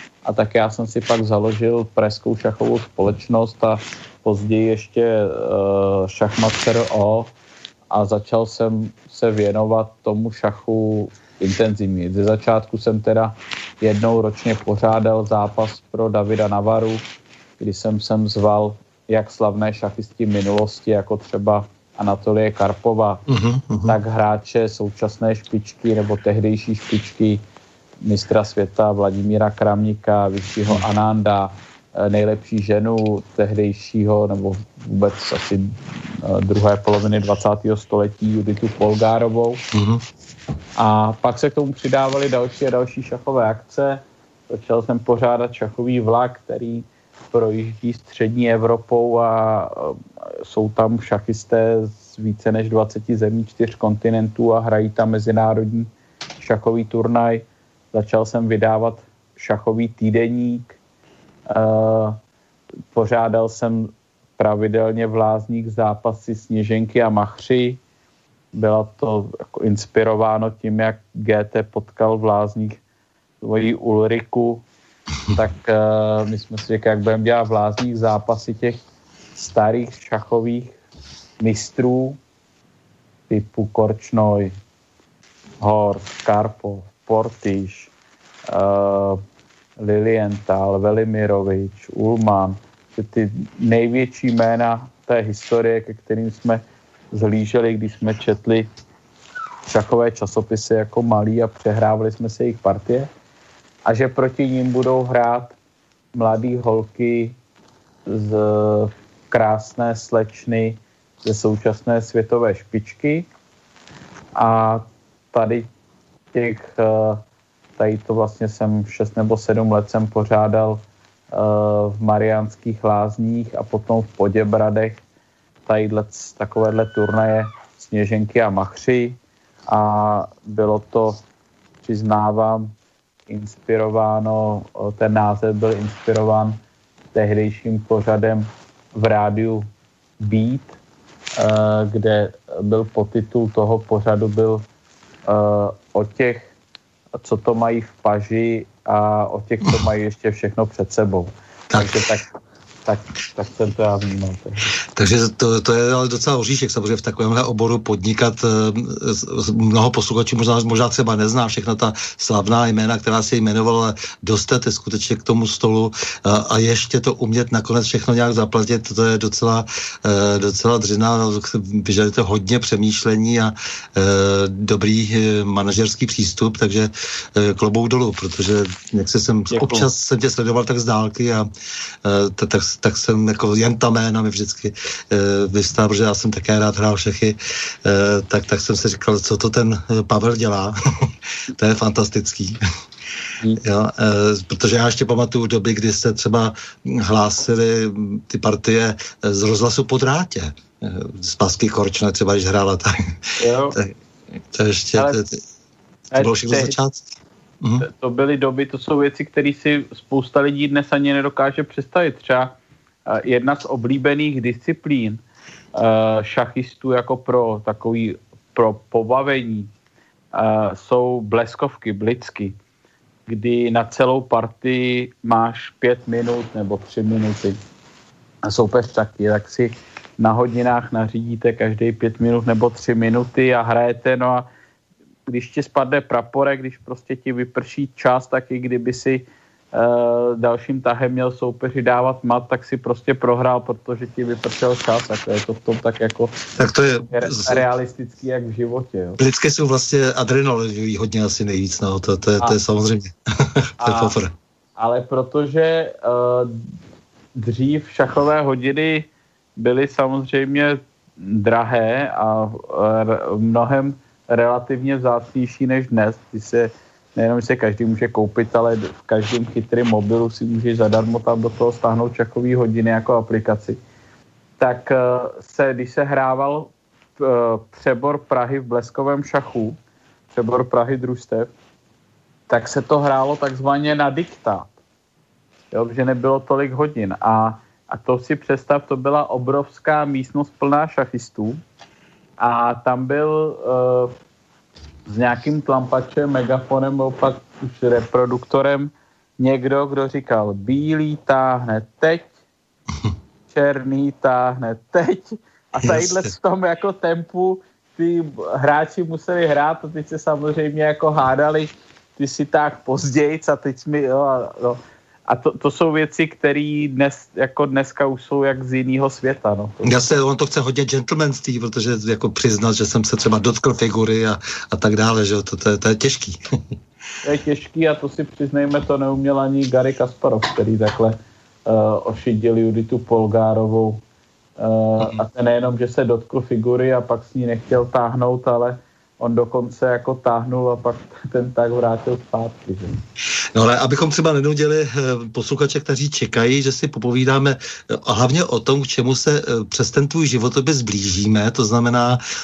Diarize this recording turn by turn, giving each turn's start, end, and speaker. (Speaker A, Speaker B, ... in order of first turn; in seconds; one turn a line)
Speaker A: 0.2-7.3
Speaker A: 7.9-17.0
Speaker A: 17.6-23.2
Speaker B: 23.3-24.0
Speaker A: 23.9-27.4
Speaker A: 28.0-39.6
Speaker B: 39.7-40.0
Speaker A: 40.8-60.8
Speaker A: 61.5-62.2
Speaker A: 62.9-67.8
Speaker A: 68.5-72.8
Speaker A: 73.4-74.6
Speaker A: 75.3-78.8
Speaker A: 79.3-80.7
Speaker A: 81.4-82.2
Speaker A: 83.3-84.5
Speaker A: 85.6-87.9
Speaker A: 88.5-89.2
Speaker A: 89.8-98.7
Speaker A: 99.7-103.1
Speaker A: 103.8-105.5
Speaker A: 106.1-107.3
Speaker A: 108.1-113.3
Speaker A: 114.3-115.7
Speaker A: 116.3-117.2
Speaker A: 117.8-125.0
Speaker A: 125.7-129.2
Speaker A: 129.7-131.2
Speaker A: 131.8-132.7
Speaker A: 133.3-136.6
Speaker A: 137.1-139.7
Speaker A: 140.2-140.8
Speaker A: 141.4-144.6
Speaker A: 145.3-146.5
Speaker A: 147.2-152.3
Speaker B: 151.7-152.0
Speaker A: 152.8-154.6
Speaker B: 154.9-181.5
Speaker A: 179.5-179.9
Speaker B: 182.0-192.6
Speaker B: 193.6-202.9
Speaker A: 203.4-203.8
Speaker B: 204.5-205.4
Speaker A: 206.1-206.8
Speaker B: 206.2-207.0
Speaker B: 207.6-207.8
Speaker A: 207.8-212.6
Speaker A: 213.1-215.2
Speaker A: 215.7-219.7
Speaker A: 220.3-222.5
Speaker A: 223.3-227.6
Speaker A: 228.4-234.5
Speaker A: 235.3-246.3
Speaker B: 246.6-247.6
Speaker A: 247.1-249.2
Speaker B: 249.2-254.3
Speaker A: 253.8-254.1
Speaker A: 254.8-256.6
Speaker A: 257.4-273.8
Speaker A: 274.6-279.8
Speaker A: 280.3-281.5
Speaker A: 282.5-284.7
Speaker A: 285.7-291.6
Speaker A: 292.4-294.1
Speaker A: 295.1-302.3
Speaker A: 303.5-320.0
Speaker B: 305.8-306.3
Speaker B: 319.8-326.4
Speaker A: 327.2-334.0
Speaker A: 334.6-343.0
Speaker B: 343.6-352.2